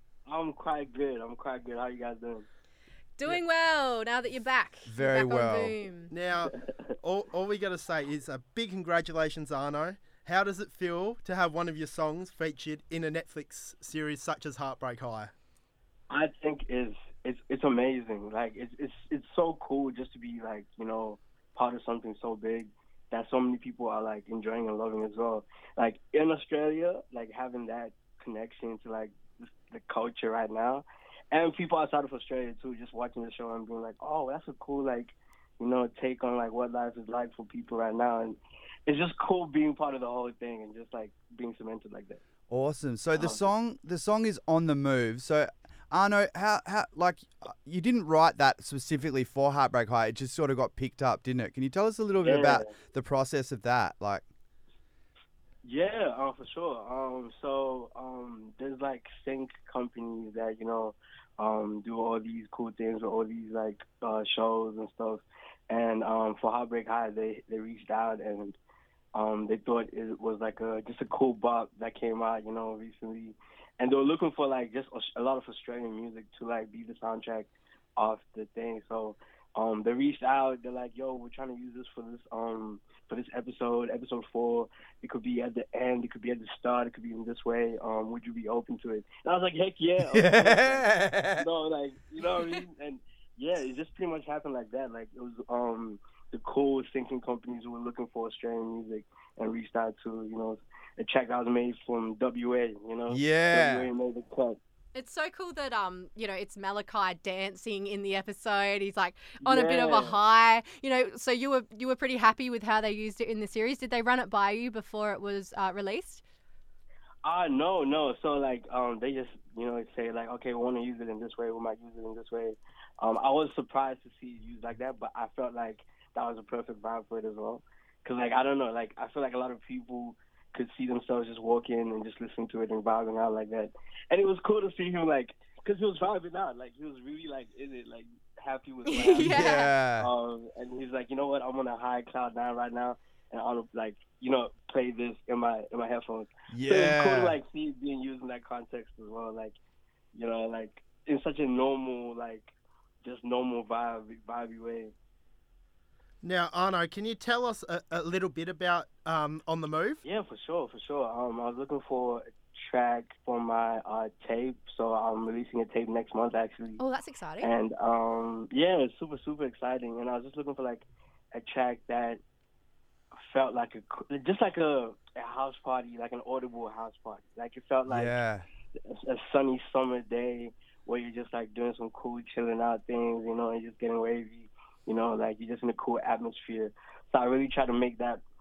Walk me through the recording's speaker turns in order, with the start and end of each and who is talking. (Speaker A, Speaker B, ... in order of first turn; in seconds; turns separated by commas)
Speaker A: 0.2-2.5, Speaker B: 3.2-6.1, Speaker C: 4.9-5.7, Speaker D: 6.1-15.3, Speaker A: 16.1-42.2, Speaker C: 42.5-54.2, Speaker A: 43.1-43.5, Speaker A: 52.2-52.7, Speaker A: 55.6-68.6, Speaker A: 69.1-104.6, Speaker C: 90.0-91.4, Speaker C: 103.1-103.9, Speaker B: 104.9-116.2, Speaker A: 109.4-110.2, Speaker A: 117.2-149.6, Speaker B: 138.9-139.7, Speaker C: 139.2-140.1, Speaker C: 146.5-147.4, Speaker A: 150.1-152.5, Speaker A: 153.0-154.9, Speaker D: 156.2-160.0, Speaker A: 160.0-166.8, Speaker B: 166.8-167.5, Speaker A: 167.4-172.2, Speaker A: 173.3-178.2, Speaker C: 177.9-178.4, Speaker A: 178.8-188.2